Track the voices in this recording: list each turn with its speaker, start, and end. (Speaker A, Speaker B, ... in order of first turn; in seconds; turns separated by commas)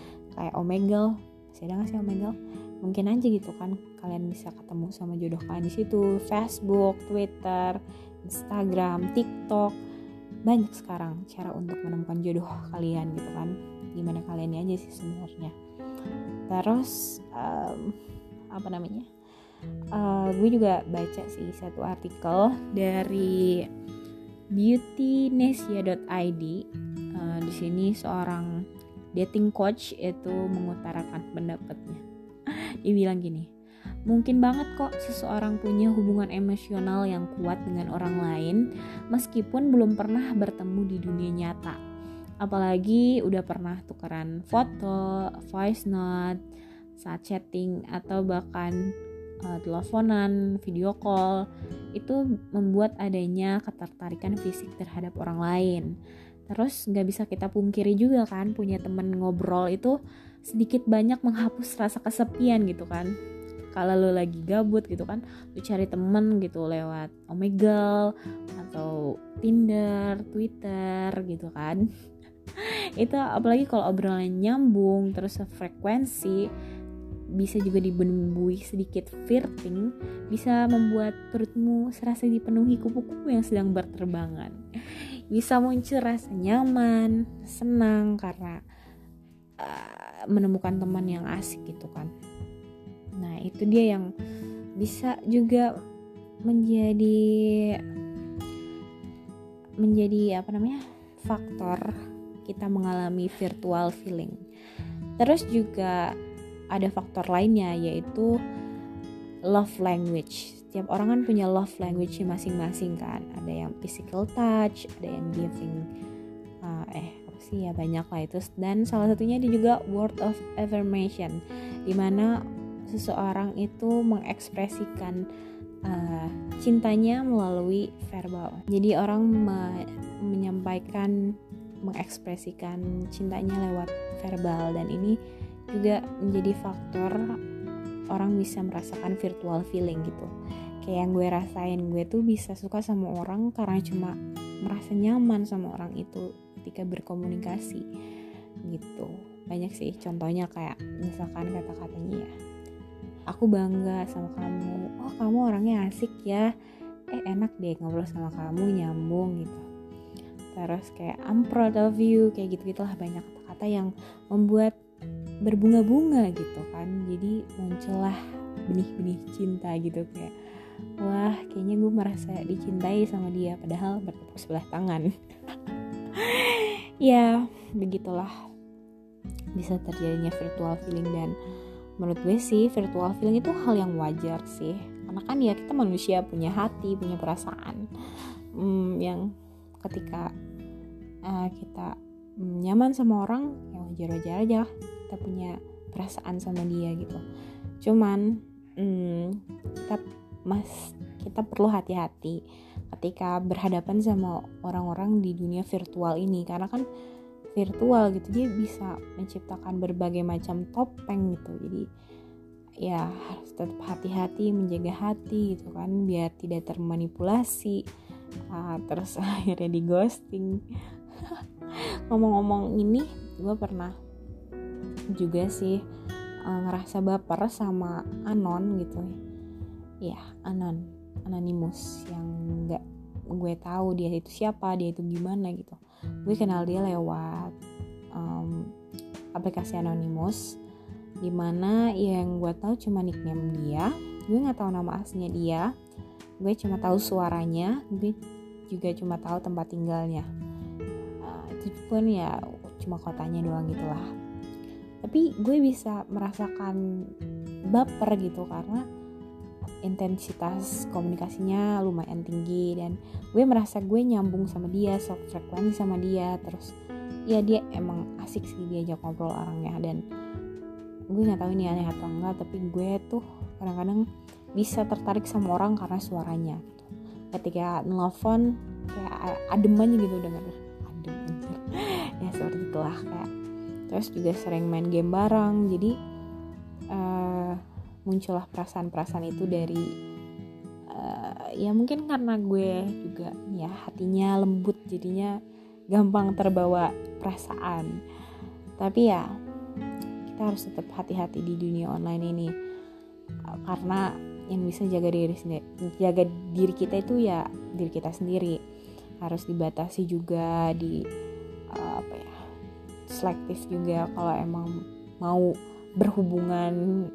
Speaker A: 0.3-9.7, Speaker A: 10.4-15.5, Speaker A: 16.5-17.9, Speaker A: 18.5-19.1, Speaker A: 19.9-23.7, Speaker A: 24.5-26.6, Speaker A: 27.1-28.5, Speaker A: 29.1-32.0, Speaker A: 32.8-33.5, Speaker A: 34.1-41.8, Speaker A: 42.4-46.4, Speaker A: 47.0-48.8, Speaker A: 49.4-51.4, Speaker A: 52.0-55.9, Speaker A: 56.5-60.0, Speaker A: 60.5-63.1, Speaker A: 63.7-71.8, Speaker A: 72.6-76.4, Speaker A: 77.4-84.5, Speaker A: 85.3-88.6, Speaker A: 89.6-92.1, Speaker A: 93.2-94.1, Speaker A: 94.8-95.7, Speaker A: 96.5-97.8, Speaker A: 99.8-101.9, Speaker A: 102.5-104.4, Speaker A: 105.2-106.1, Speaker A: 106.7-108.3, Speaker A: 109.5-115.8, Speaker A: 116.6-121.4, Speaker A: 121.9-122.3, Speaker A: 122.9-125.2, Speaker A: 125.8-131.1, Speaker A: 131.8-135.2, Speaker A: 135.7-137.2, Speaker A: 138.1-140.3, Speaker A: 140.8-147.8, Speaker A: 148.7-152.3, Speaker A: 153.3-156.5, Speaker A: 157.1-159.6, Speaker A: 160.5-164.7, Speaker A: 165.5-170.3, Speaker A: 171.0-178.3, Speaker A: 179.6-181.3, Speaker A: 182.0-187.8, Speaker A: 188.6-189.3, Speaker A: 189.8-190.3, Speaker A: 191.2-197.2, Speaker A: 197.8-198.2, Speaker A: 198.8-206.8, Speaker A: 207.5-211.8, Speaker A: 212.8-217.8, Speaker A: 218.5-220.6, Speaker A: 221.2-221.4, Speaker A: 222.1-223.9, Speaker A: 225.1-225.8, Speaker A: 226.4-229.1, Speaker A: 230.0-232.8, Speaker A: 233.4-237.5, Speaker A: 238.2-238.6, Speaker A: 239.3-240.6, Speaker A: 241.2-245.7, Speaker A: 246.4-248.2, Speaker A: 248.7-250.3, Speaker A: 251.2-254.1, Speaker A: 255.0-256.8, Speaker A: 257.7-258.8, Speaker A: 259.8-266.7, Speaker A: 267.3-270.0, Speaker A: 271.1-274.0, Speaker A: 274.6-283.3, Speaker A: 283.9-285.9, Speaker A: 286.9-289.8, Speaker A: 290.9-295.3, Speaker A: 295.9-297.9, Speaker A: 298.8-299.3, Speaker A: 300.3-302.5, Speaker A: 303.6-308.6, Speaker A: 309.2-311.0, Speaker A: 311.7-312.3, Speaker A: 313.1-314.7, Speaker A: 315.2-316.8